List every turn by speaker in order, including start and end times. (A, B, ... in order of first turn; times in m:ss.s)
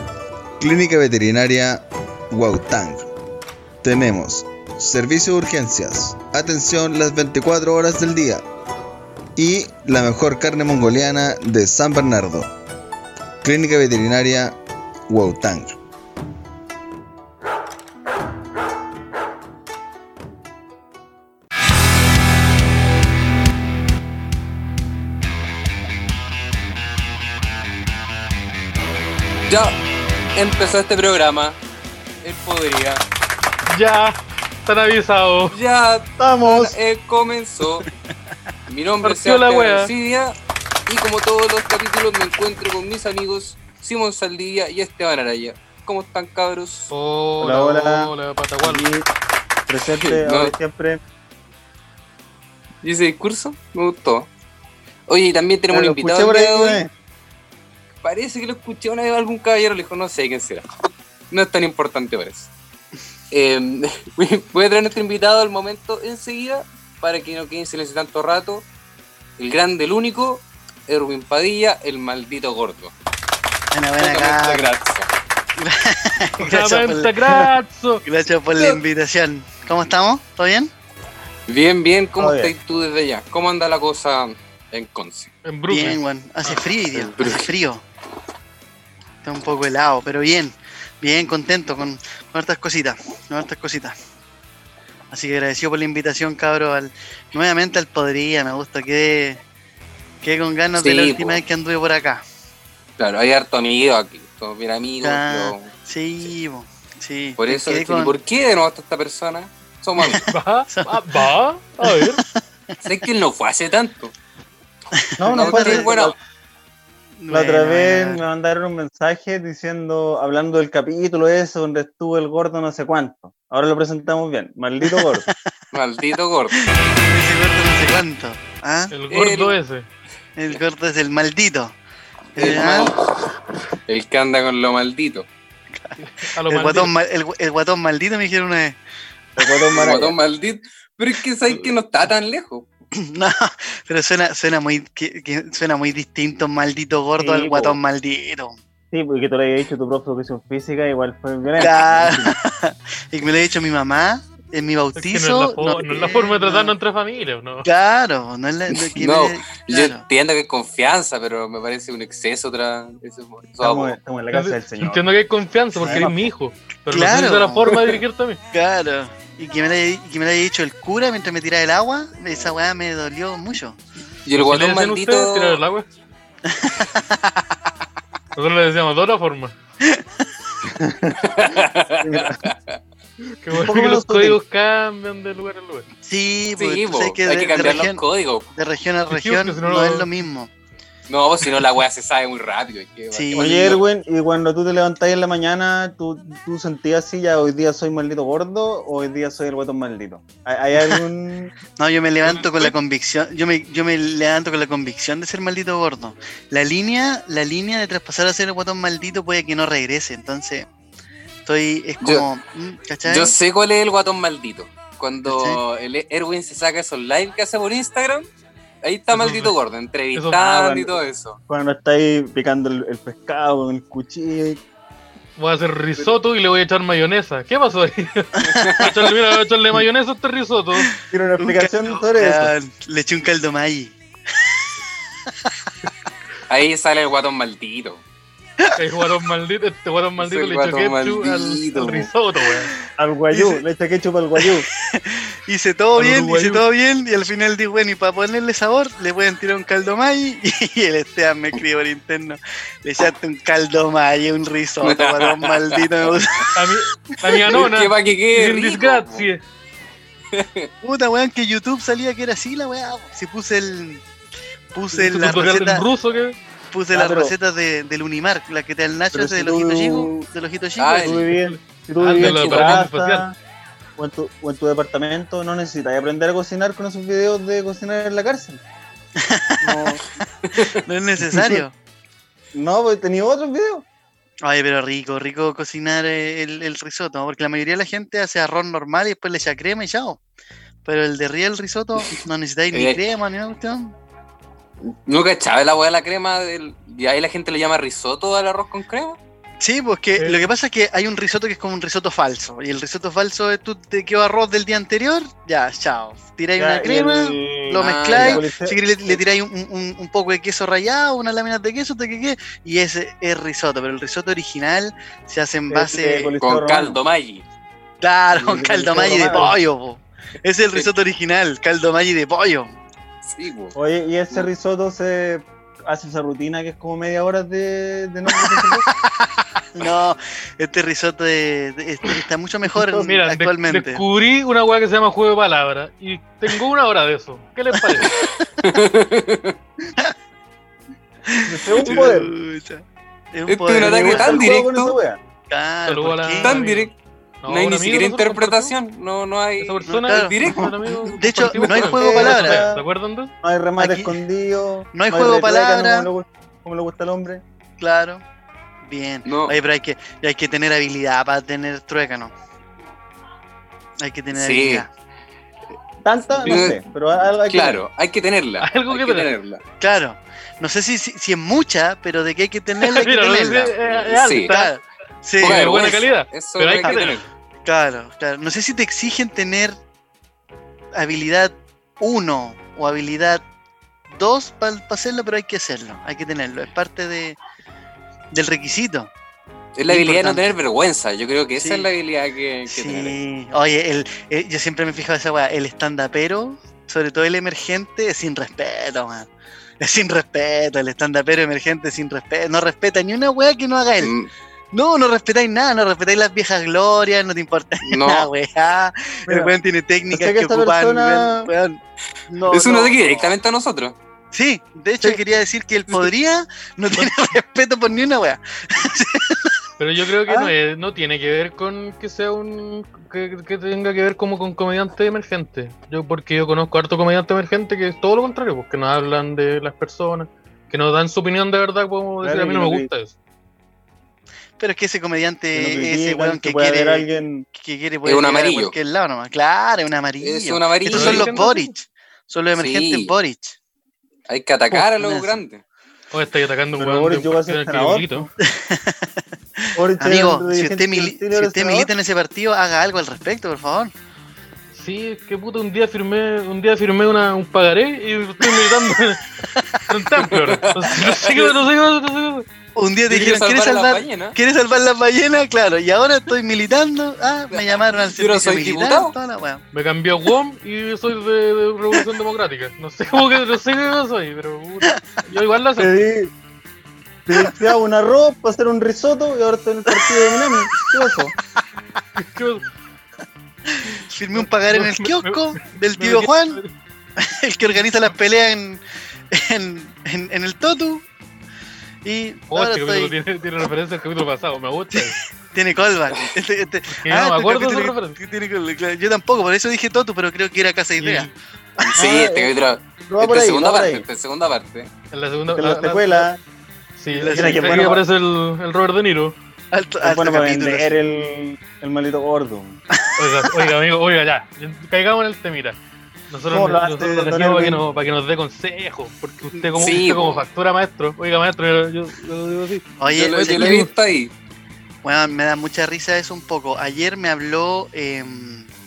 0:00.6-0:03.1 A
0:03.8-0:08.4 A
0:09.4-0:12.5 A
0:13.4-0:14.6 A
0:15.1-0:15.8 A
0:29.5-0:29.7 B
0:30.3-0:31.6 B
0:32.2-0:33.0 B
0:33.7-0:35.5 C
0:35.5-0:37.8 B
0:36.2-0:36.8 D
0:38.7-0:40.3 B
0:39.0-0:39.9 C
0:40.9-0:46.9 B
0:46.9-0:48.9 C
0:47.4-0:49.1 D
0:49.7-0:51.0 D
0:50.0-0:50.5 B
0:52.8-0:54.3 B
0:55.1-0:56.8 B
0:55.7-0:56.9 D
0:58.0-1:00.6 B
1:01.3-1:02.5 B
1:03.3-1:08.6 B
1:09.4-1:12.9 B
1:13.7-1:14.6 E
1:14.0-1:15.1 B
1:15.6-1:17.2 E
1:16.4-1:18.0 C
1:18.0-1:20.7 E
1:18.5-1:18.8 B
1:21.5-1:25.3 B
1:22.2-1:22.5 D
1:25.4-1:26.6 C
1:25.7-1:27.8 E
1:26.9-1:27.5 B
1:29.2-1:34.0 E
1:35.1-1:39.4 E
1:40.2-1:42.2 E
1:40.8-1:41.4 B
1:43.0-1:45.7 B
1:45.0-1:48.1 E
1:47.4-1:50.2 B
1:50.0-1:51.3 E
1:50.3-1:52.2 C
1:51.8-1:52.8 E
1:52.8-1:54.1 B
1:55.0-1:55.9 E
1:55.2-1:56.1 D
1:55.3-1:56.2 B
1:57.2-1:58.2 E
1:57.3-2:05.3 D
2:04.9-2:05.3 E
2:05.7-2:06.6 B
2:06.6-2:08.9 E
2:08.9-2:09.8 C
2:09.1-2:09.6 B
2:10.4-2:11.7 E
2:12.3-2:12.9 E
2:12.4-2:13.3 B
2:13.9-2:15.3 B
2:15.8-2:18.8 E
2:16.0-2:16.9 C
2:19.4-2:20.2 D
2:19.7-2:22.6 B
2:22.9-2:28.6 E
2:27.2-2:27.8 D
2:28.9-2:32.3 D
2:31.6-2:36.7 E
2:31.6-2:31.9 B
2:35.0-2:37.7 C
2:37.6-2:40.0 E
2:38.7-2:44.0 B
2:43.6-2:45.0 D
2:44.3-2:48.4 C
2:45.8-2:46.3 D
2:45.8-2:46.1 E
2:46.9-2:47.9 E
2:48.5-2:53.8 E
2:54.2-2:55.6 B
2:54.4-2:55.8 C
2:56.5-2:57.2 E
2:58.4-2:59.5 C
3:00.6-3:01.5 D
3:01.3-3:02.8 B
3:02.0-3:02.4 D
3:03.4-3:05.9 C
3:03.5-3:04.4 D
3:06.0-3:10.5 E
3:06.6-3:08.4 B
3:09.1-3:10.1 C
3:11.1-3:13.8 B
3:13.1-3:13.6 E
3:13.4-3:21.5 D
3:21.8-3:30.7 E
3:31.4-3:33.3 E
3:32.0-3:32.3 B
3:33.0-3:38.3 B
3:35.3-3:35.6 E
3:38.8-3:41.4 B
3:39.1-3:39.5 C
3:40.3-3:44.6 D
3:45.4-3:50.9 C
3:48.4-3:48.9 E
3:51.1-3:52.5 D
3:51.4-3:54.5 E
3:56.5-3:58.0 B
3:58.8-4:02.7 C
4:00.2-4:02.1 B
4:03.0-4:04.6 D
4:03.3-4:03.6 E
4:04.5-4:16.6 E
4:06.0-4:06.6 C
4:14.8-4:16.2 B
4:16.5-4:19.4 C
4:17.5-4:19.3 B
4:20.3-4:20.7 B
4:20.8-4:24.0 E
4:24.7-4:25.8 E
4:24.9-4:26.4 C
4:26.7-4:31.1 E
4:26.9-4:27.3 D
4:29.1-4:30.3 D
4:30.8-4:31.3 B
4:31.0-4:33.3 D
4:31.4-4:33.3 C
4:32.2-4:32.8 B
4:34.0-4:38.6 D
4:39.2-4:40.0 E
4:39.6-4:40.0 D
4:40.5-4:40.7 B
4:40.6-4:41.7 E
4:42.5-4:43.8 D
4:44.4-4:50.2 E
4:50.8-4:53.9 E
4:52.7-4:53.0 B
4:54.8-4:59.2 B
4:59.6-5:16.4 E
5:00.2-5:00.4 C
5:06.6-5:09.2 D
5:07.8-5:08.4 B
5:15.7-5:17.0 D
5:16.4-5:17.4 B
5:18.0-5:22.7 E
5:18.3-5:19.5 D
5:23.2-5:23.7 B
5:23.7-5:28.8 D
5:29.7-5:34.0 E
5:32.7-5:33.1 D
5:33.0-5:38.1 C
5:38.6-5:39.5 B
5:41.3-5:44.5 E
5:41.4-5:42.3 D
5:43.4-5:44.9 B
5:43.8-5:45.2 D
5:45.5-5:46.5 E
5:45.8-5:46.9 C
5:46.4-5:46.9 B
5:47.4-5:48.7 C
5:47.5-5:50.8 B
5:49.6-5:53.3 C
5:49.9-5:52.6 E
5:51.5-5:52.8 D
5:53.4-5:57.4 D
5:53.8-5:54.2 E
5:54.9-5:56.1 E
5:57.8-5:58.2 E
5:58.8-6:02.3 E
5:59.2-5:59.5 B
6:04.0-6:04.9 E
6:04.3-6:04.8 B
6:06.0-6:07.8 D
6:06.4-6:06.8 B
6:07.5-6:09.6 B
6:08.6-6:09.3 C
6:09.8-6:13.8 E
6:12.8-6:14.7 C
6:14.0-6:14.5 B
6:14.4-6:15.6 E
6:15.4-6:17.2 C
6:15.4-6:17.2 B
6:17.6-6:19.8 E
6:21.0-6:23.4 E
6:24.1-6:27.4 E
6:28.3-6:29.1 E
6:29.8-6:33.2 B
6:29.9-6:30.5 E
6:31.6-6:31.9 E
6:32.7-6:39.3 E
6:39.8-6:44.1 E
6:44.0-6:44.3 B
6:44.7-6:53.3 E
6:47.8-6:48.3 B
6:49.3-6:49.5 D
6:50.1-6:51.5 D
6:52.5-6:54.0 B
6:54.3-6:59.6 E
6:57.0-6:57.2 C
6:59.8-7:13.1 C
7:00.2-7:00.5 E
7:12.2-7:12.9 D
7:14.6-7:23.6 E
7:15.5-7:17.4 D
7:18.0-7:18.7 B
7:20.2-7:21.4 B
7:20.9-7:21.7 C
7:22.5-7:23.2 B
7:24.3-7:25.6 B
7:24.7-7:25.3 E
7:26.1-7:28.3 C
7:26.8-7:28.3 D
7:28.4-7:33.9 E
7:29.7-7:31.9 D
7:34.7-7:39.2 C
7:39.4-7:39.8 E
7:39.9-7:42.4 C
7:40.3-7:41.2 B
7:42.8-7:49.6 E
7:43.1-7:44.4 B
7:47.5-7:49.1 B
7:49.7-7:55.9 C
7:55.8-7:56.3 D
7:57.2-8:01.3 D
8:02.2-8:02.6 C
8:03.7-8:06.6 E
8:04.3-8:06.7 C
8:07.2-8:11.0 E
8:12.0-8:13.1 E
8:12.5-8:15.1 C
8:14.9-8:21.3 E
8:16.9-8:18.2 C
8:21.0-8:21.3 C
8:21.8-8:24.9 B
8:22.0-8:22.5 D
8:23.1-8:24.0 D
8:25.1-8:26.3 C
8:25.5-8:26.4 D
8:27.0-8:29.3 C
8:27.1-8:28.0 E
8:27.3-8:28.0 D
8:29.7-8:30.9 E
8:30.0-8:32.8 D
8:33.0-8:33.7 E
8:33.2-8:35.8 C
8:36.3-8:43.9 C
8:36.5-8:37.8 D
8:39.8-8:40.4 B
8:43.0-8:43.8 E
8:43.0-8:44.3 B
8:45.0-8:48.7 E